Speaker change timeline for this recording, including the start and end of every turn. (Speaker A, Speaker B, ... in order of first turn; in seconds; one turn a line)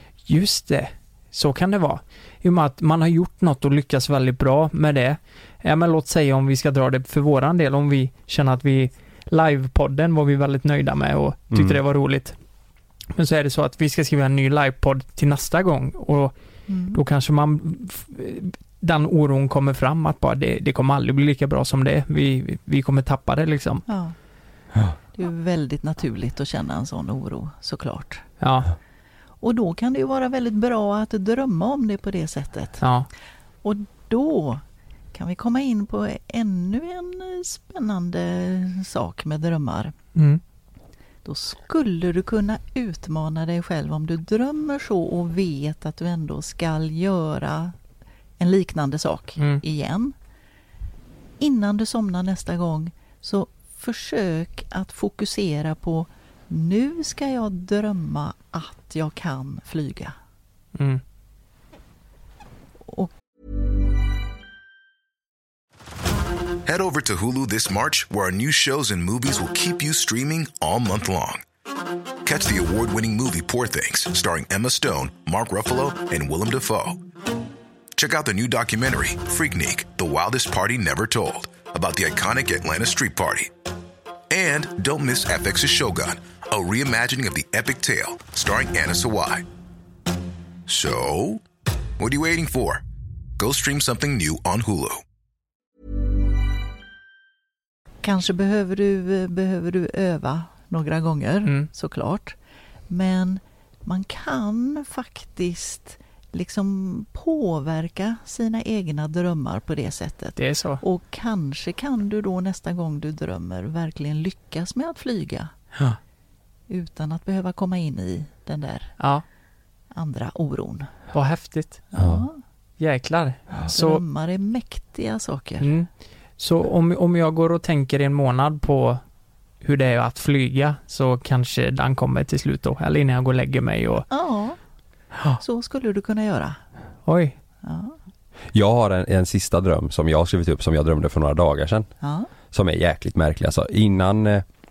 Speaker A: 0.3-12.4
Speaker B: 11.5-11.8
Speaker A: 13.1-16.3
Speaker C: 16.7-17.0
Speaker A: 16.9-23.9
Speaker C: 23.9-24.2
Speaker C: 25.1-28.3
Speaker A: 28.4-28.7
Speaker C: 29.4-32.8
Speaker A: 32.8-33.1
Speaker C: 33.6-34.6
Speaker C: 35.1-39.9
Speaker A: 40.1-40.4
Speaker C: 41.2-47.8
Speaker C: 48.4-50.1
Speaker C: 51.4-60.1
Speaker A: 60.8-61.0
Speaker D: 66.7-71.4
Speaker D: 72.2-77.0
Speaker D: 78.0-83.5
Speaker D: 84.3-89.5
Speaker D: 90.7-91.4
Speaker D: 92.0-92.8
Speaker D: 93.4-95.0
Speaker C: 98.0-102.4
Speaker C: 102.9-115.5
Speaker A: 110.4-110.8
Speaker C: 116.7-119.0
Speaker A: 119.0-119.2
Speaker C: 119.9-120.9
Speaker A: 121.1-121.8
Speaker C: 121.9-122.4
Speaker B: 122.0-122.3
Speaker A: 122.8-124.0
Speaker C: 123.7-125.7
Speaker A: 125.6-129.0
Speaker A: 129.6-134.1
Speaker C: 134.1-134.6
Speaker C: 135.4-136.6
Speaker A: 137.1-137.4
Speaker C: 137.6-137.9
Speaker B: 138.5-141.9
Speaker C: 142.0-142.3
Speaker B: 142.5-144.4